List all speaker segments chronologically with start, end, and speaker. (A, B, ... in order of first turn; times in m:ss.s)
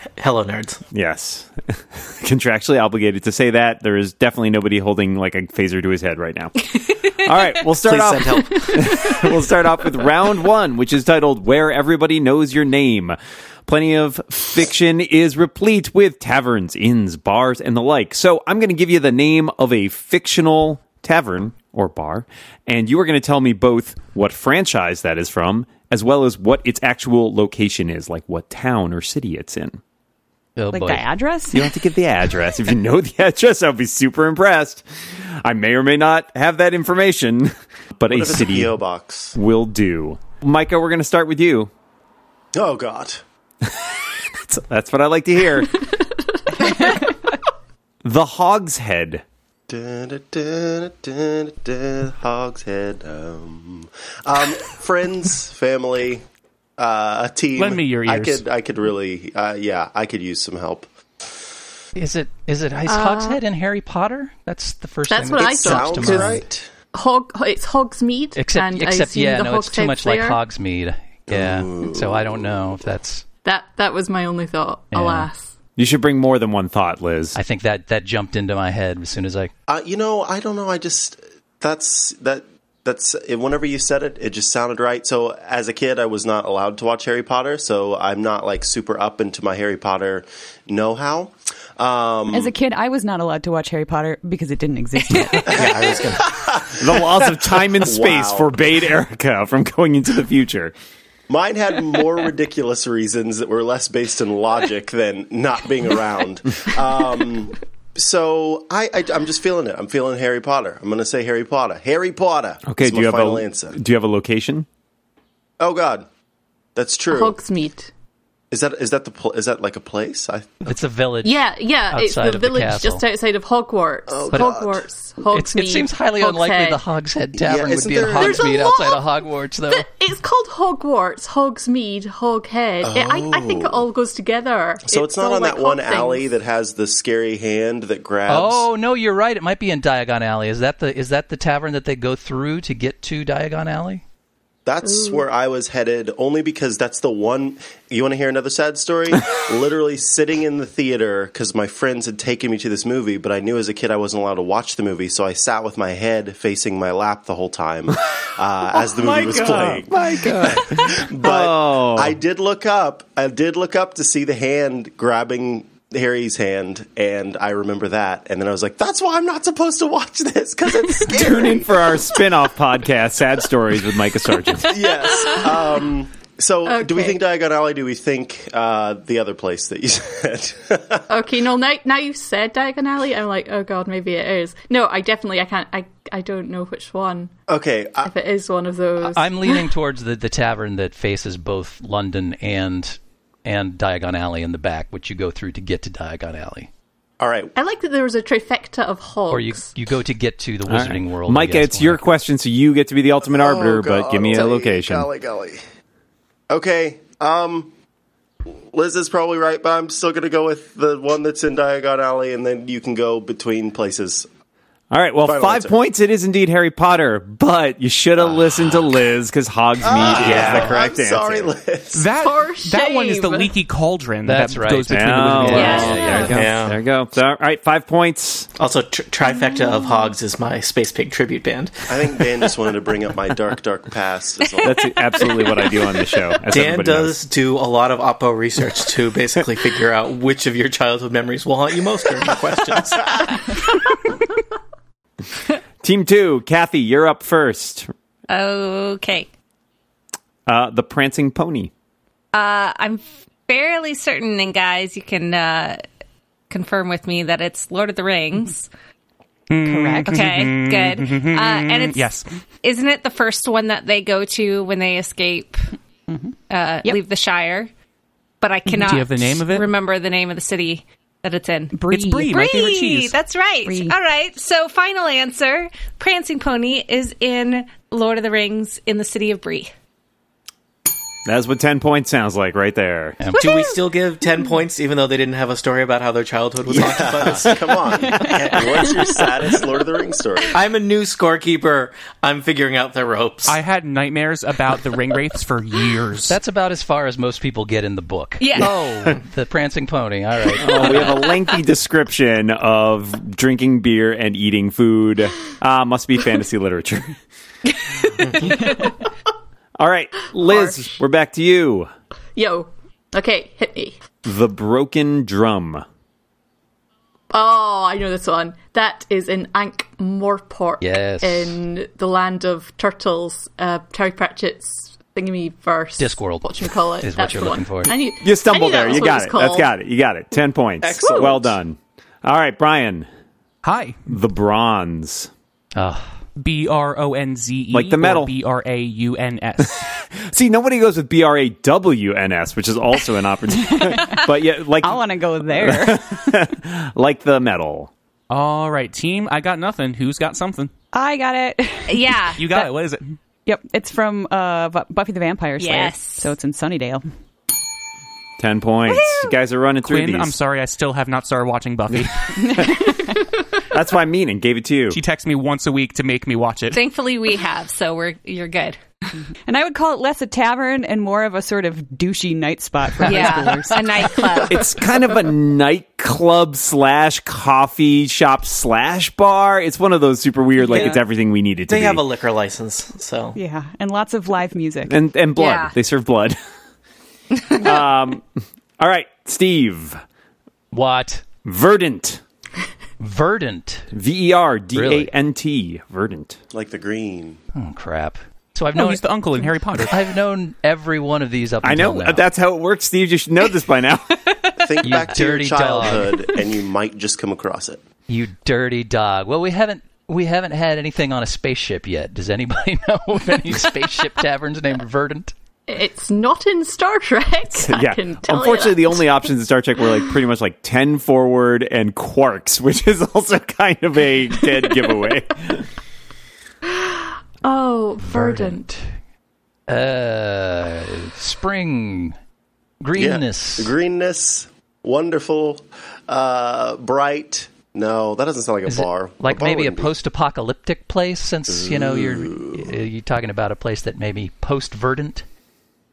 0:00.2-0:00.8 A
0:00.9-0:29.8 B
0:07.8-0:09.0 A
0:30.6-0:31.1 C
0:30.7-0:31.7 D
0:31.5-0:34.8 B
0:35.4-0:38.7 B
0:38.1-0:39.3 E
0:39.3-0:41.7 B
0:42.5-0:43.2 E
0:44.4-0:45.8 B
0:48.0-0:49.2 B
0:49.7-0:56.2 E
0:56.8-1:00.9 E
0:57.6-0:58.4 F
1:01.9-1:06.4 C
1:02.8-1:03.4 G
1:05.1-1:06.4 G
1:05.4-1:06.7 E
1:06.9-1:10.4 G
1:08.4-1:13.2 C
1:11.3-1:12.5 E
1:13.4-1:15.5 G
1:14.9-1:15.3 C
1:15.8-1:17.4 B
1:17.3-1:19.5 C
1:19.7-1:32.5 E
1:32.3-1:35.7 D
1:35.1-1:35.5 H
1:35.5-1:36.3 A
1:35.6-1:38.5 E
1:36.8-1:40.7 B
1:41.3-1:53.8 E
1:52.6-1:54.7 B
1:55.6-1:56.0 E
1:56.8-1:57.4 E
1:57.1-1:57.9 G
1:58.5-2:00.7 E
2:00.6-2:03.0 C
2:01.2-2:06.8 G
2:04.1-2:04.8 E
2:05.3-2:09.9 C
2:07.4-2:08.4 E
2:08.0-2:09.1 G
2:09.7-2:16.2 G
2:12.8-2:13.8 E
2:14.9-2:18.7 E
2:18.3-2:24.0 C
2:24.6-2:52.0 E
2:24.8-2:25.2 G
2:38.7-2:42.2 B
2:40.2-2:40.6 F
2:51.1-2:55.1 B
2:54.6-3:01.1 E
2:56.6-2:57.2 G
3:01.1-3:07.3 G
3:07.5-3:08.1 E
3:08.0-3:09.7 G
3:09.0-3:16.7 C
3:17.2-3:17.5 E
3:17.6-3:19.7 G
3:19.3-3:22.0 C
3:20.6-3:25.1 B
3:23.3-3:25.6 E
3:26.5-3:27.7 E
3:28.7-3:34.3 E
3:34.9-3:41.5 B
3:35.2-3:35.7 E
3:39.8-3:42.1 E
3:40.1-3:40.8 A
3:41.9-3:46.3 F
3:42.2-3:43.5 G
3:44.2-3:46.3 C
3:44.9-3:48.5 B
3:45.5-3:46.3 H
3:46.2-3:46.8 A
3:48.6-3:52.1 A
3:49.6-3:49.8 G
3:51.9-3:55.3 E
3:54.6-3:57.2 B
3:56.5-4:03.2 A
4:05.8-4:07.9 B
4:08.3-4:09.3 H
4:10.4-4:11.7 B
4:12.3-4:15.8 H
4:16.5-4:18.7 H
4:19.5-4:22.3 F
4:19.6-4:20.3 D
4:20.1-4:22.0 H
4:22.6-4:25.6 H
4:26.5-4:27.7 H
4:28.4-4:39.7 H
4:28.7-4:29.0 D
4:28.8-4:29.7 F
4:31.7-4:32.4 D
4:31.9-4:33.1 F
4:33.6-4:33.9 D
4:41.2-4:43.2 B
4:43.2-4:43.7 C
4:43.3-4:48.3 A
4:46.7-4:50.6 E
4:50.5-4:53.6 A
4:53.4-4:56.4 F
4:56.2-5:01.2 C
4:58.4-4:58.7 H
5:00.6-5:07.2 B
5:09.8-5:11.9 B
5:10.4-5:11.0 G
5:12.4-5:14.0 G
5:14.2-5:15.8 B
5:17.3-5:29.7 G
5:20.8-5:21.6 C
5:26.0-5:27.9 C
5:28.2-5:33.1 B
5:30.8-5:31.6 E
5:31.0-5:31.3 G
5:33.6-5:34.0 F
5:34.1-5:35.3 B
5:35.8-5:36.1 C
5:36.4-5:39.8 F
5:37.7-5:38.3 B
5:39.6-5:47.9 B
5:43.6-5:46.2 D
5:48.3-5:50.7 F
5:50.9-5:52.7 D
5:51.9-5:52.7 H
5:52.4-5:53.1 F
5:53.4-5:57.0 D
5:55.6-5:56.3 H
5:58.4-6:00.3 B
5:58.9-5:59.3 H
5:59.8-6:02.6 F
6:02.4-6:03.2 D
6:03.7-6:05.0 B
6:04.9-6:06.8 F
6:06.7-6:08.8 H
6:09.4-6:14.4 D
6:13.0-6:14.7 H
6:14.4-6:22.0 B
6:21.7-6:23.4 A
6:23.3-6:25.0 D
6:24.9-6:26.4 B
6:25.4-6:25.7 H
6:27.5-6:30.0 B
6:30.7-6:31.2 C
6:31.4-6:32.2 B
6:33.0-6:33.9 C
6:33.9-6:36.4 B
6:34.7-6:35.1 C
6:36.5-6:37.4 E
6:37.5-6:39.0 C
6:38.7-6:40.0 F
6:39.9-6:42.2 C
6:41.6-6:44.3 B
6:44.6-6:47.8 E
6:44.8-6:46.2 C
6:48.1-6:55.3 C
6:55.7-6:59.3 G
6:57.6-7:05.7 B
7:06.6-7:08.8 G
7:08.0-7:08.7 C
7:09.7-7:12.2 C
7:12.8-7:13.7 C
7:12.9-7:19.9 E
7:18.6-7:25.2 C
7:21.5-7:22.7 E